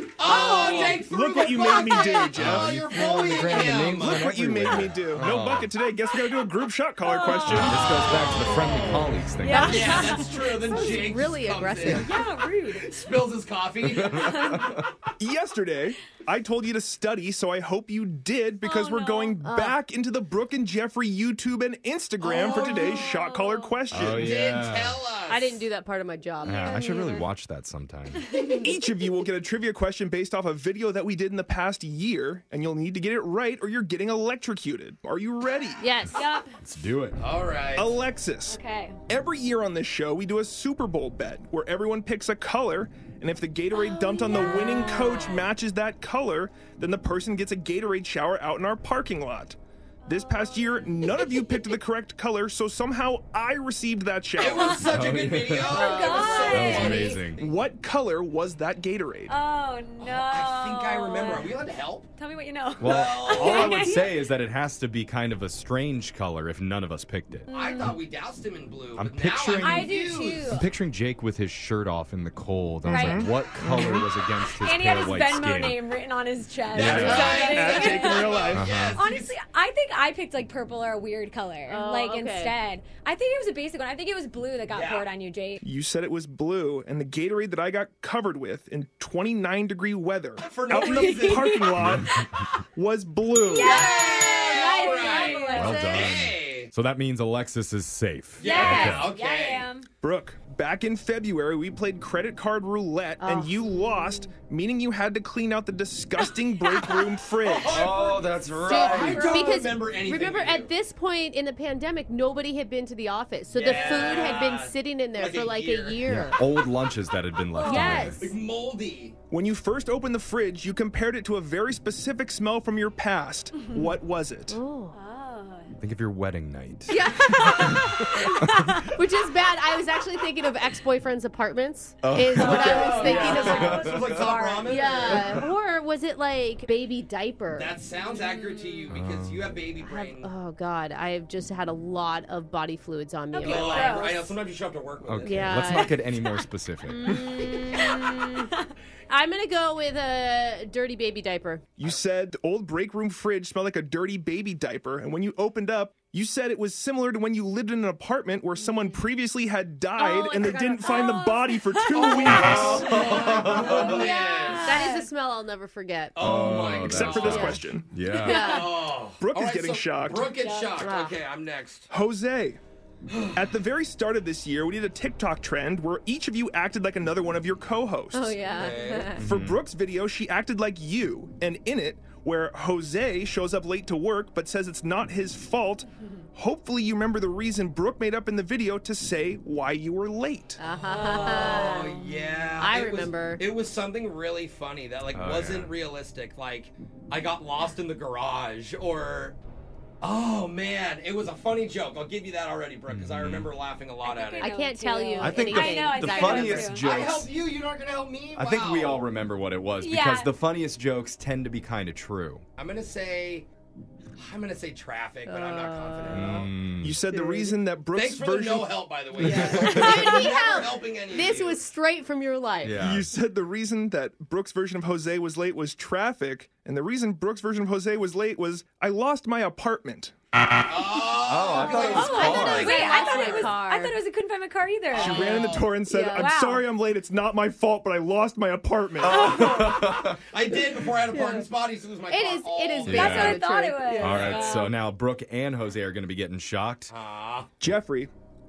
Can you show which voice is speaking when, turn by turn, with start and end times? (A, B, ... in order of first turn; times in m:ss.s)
0:00.2-0:04.3 A
0:00.2-0:02.3 B
0:00.2-0:02.8 C
0:02.3-0:05.7 D
0:03.6-0:07.8 C
0:06.1-0:06.4 B
0:07.0-0:08.8 B
0:07.4-0:10.1 D
0:07.7-0:12.1 A
0:09.4-0:11.1 B
0:09.6-0:10.1 E
0:10.7-0:12.2 E
0:11.9-0:13.1 B
0:12.7-0:14.3 A
0:13.8-0:14.8 D
0:14.1-0:14.7 B
0:15.2-0:24.4 C
0:18.6-0:19.4 B
0:19.4-0:19.8 E
0:22.2-0:23.8 B
0:23.9-0:25.1 D
0:24.1-0:25.6 A
0:25.3-0:26.7 E
0:26.4-0:27.3 B
0:26.4-0:28.2 D
0:28.2-0:28.8 B
0:28.6-0:35.9 C
0:35.8-0:36.2 E
0:36.1-0:36.6 B
0:36.6-0:37.2 D
0:37.2-0:37.9 A
0:37.8-0:54.9 C
0:38.5-0:39.0 B
0:44.1-0:45.2 B
0:50.1-0:51.6 B
0:54.4-0:57.5 A
0:54.4-0:54.9 B
0:54.8-0:57.4 D
0:55.7-0:57.2 B
0:57.4-0:59.3 C
0:59.3-1:04.2 B
1:00.0-1:02.1 A
1:02.8-1:07.5 D
1:02.8-1:04.0 A
1:07.5-1:08.0 B
1:07.5-1:10.5 A
1:09.0-1:15.8 D
1:09.6-1:10.7 B
1:12.9-1:14.1 C
1:12.9-1:13.3 B
1:14.4-1:25.6 B
1:16.7-1:17.3 D
1:16.8-1:19.3 A
1:16.8-1:18.7 C
1:17.0-1:17.6 E
1:18.5-1:19.0 D
1:21.7-1:22.6 E
1:24.7-1:25.1 A
1:25.6-1:32.1 C
1:30.4-1:31.5 A
1:30.7-1:31.8 B
1:31.8-1:32.1 D
1:32.8-1:33.9 C
1:33.4-1:36.2 B
1:33.6-1:36.7 A
1:34.6-1:36.0 E
1:35.5-1:39.2 D
1:38.4-1:39.7 A
1:38.4-1:39.9 B
1:38.5-1:39.0 E
1:40.0-1:47.9 C
1:43.2-1:43.7 E
1:46.7-1:47.1 B
1:47.5-1:50.7 A
1:47.6-1:49.5 D
1:48.6-1:56.4 E
1:53.5-1:56.2 A
1:56.1-1:58.3 D
1:57.6-1:58.3 E
1:57.6-1:59.2 A
1:57.7-1:58.0 B
1:59.3-2:04.6 C
2:04.5-2:05.0 E
2:04.9-2:05.7 B
2:05.8-2:08.8 D
2:06.9-2:14.0 E
2:07.2-2:08.9 B
2:12.0-2:14.4 D
2:12.4-2:15.5 A
2:12.5-2:15.2 B
2:14.6-2:17.7 E
2:15.1-2:15.5 D
2:17.5-2:20.3 A
2:18.1-2:18.9 B
2:18.9-2:19.6 D
2:19.8-2:24.1 E
2:23.3-2:24.3 B
2:23.4-2:25.7 A
2:25.0-2:27.1 D
2:25.2-2:26.0 E
2:25.8-2:26.4 B
2:26.9-2:28.5 E
2:27.6-2:28.7 B
2:29.1-2:31.6 E
2:31.8-2:42.9 C
2:40.0-2:41.3 E
2:40.8-2:45.1 B
2:41.9-2:44.8 A
2:42.3-2:44.0 D
2:42.9-2:44.1 E
2:44.6-2:47.6 E
2:46.2-2:47.5 A
2:46.2-2:48.5 D
2:46.8-2:47.9 C
2:48.2-2:49.1 E
2:48.2-2:48.7 B
2:48.3-2:51.9 A
2:49.2-2:50.4 C
2:50.3-2:50.9 B
2:50.8-2:51.2 E
2:51.9-2:52.6 C
2:53.1-2:53.4 A
2:53.3-2:58.4 C
2:58.1-2:59.2 E
2:58.5-2:59.1 A
2:59.2-2:59.6 D
2:59.2-3:10.6 C
3:10.6-3:11.9 E
3:10.7-3:19.4 A
3:10.9-3:12.1 B
3:12.6-3:13.4 E
3:15.1-3:15.7 D
3:20.0-3:24.5 A
3:22.9-3:23.5 D
3:24.0-3:27.0 B
3:24.4-3:26.8 E
3:25.2-3:27.3 D
3:26.7-3:29.0 A
3:28.4-3:32.4 D
3:29.8-3:30.3 B
3:32.6-3:33.5 A
3:34.2-3:36.5 A
3:35.3-3:36.5 E
3:36.1-3:37.0 D
3:36.8-3:39.4 C
3:37.1-3:37.6 E
3:37.9-3:41.6 A
3:39.2-3:39.9 D
3:39.6-3:42.8 E
3:39.8-3:40.4 B
3:42.6-3:43.1 D
3:42.8-3:50.1 C
3:50.7-3:53.5 A
3:51.2-3:52.7 D
3:51.5-3:54.0 E
3:51.8-3:56.6 B
3:54.9-3:55.8 A
3:54.9-3:59.3 C
3:55.9-3:56.4 E
3:59.0-4:00.2 D
3:59.1-3:59.9 B
3:59.6-4:03.5 A
4:01.1-4:01.5 E
4:02.1-4:04.3 E
4:02.9-4:03.4 D
4:02.9-4:04.7 B
4:04.0-4:06.9 D
4:04.0-4:04.6 A
4:06.9-4:07.5 A
4:07.6-4:08.1 C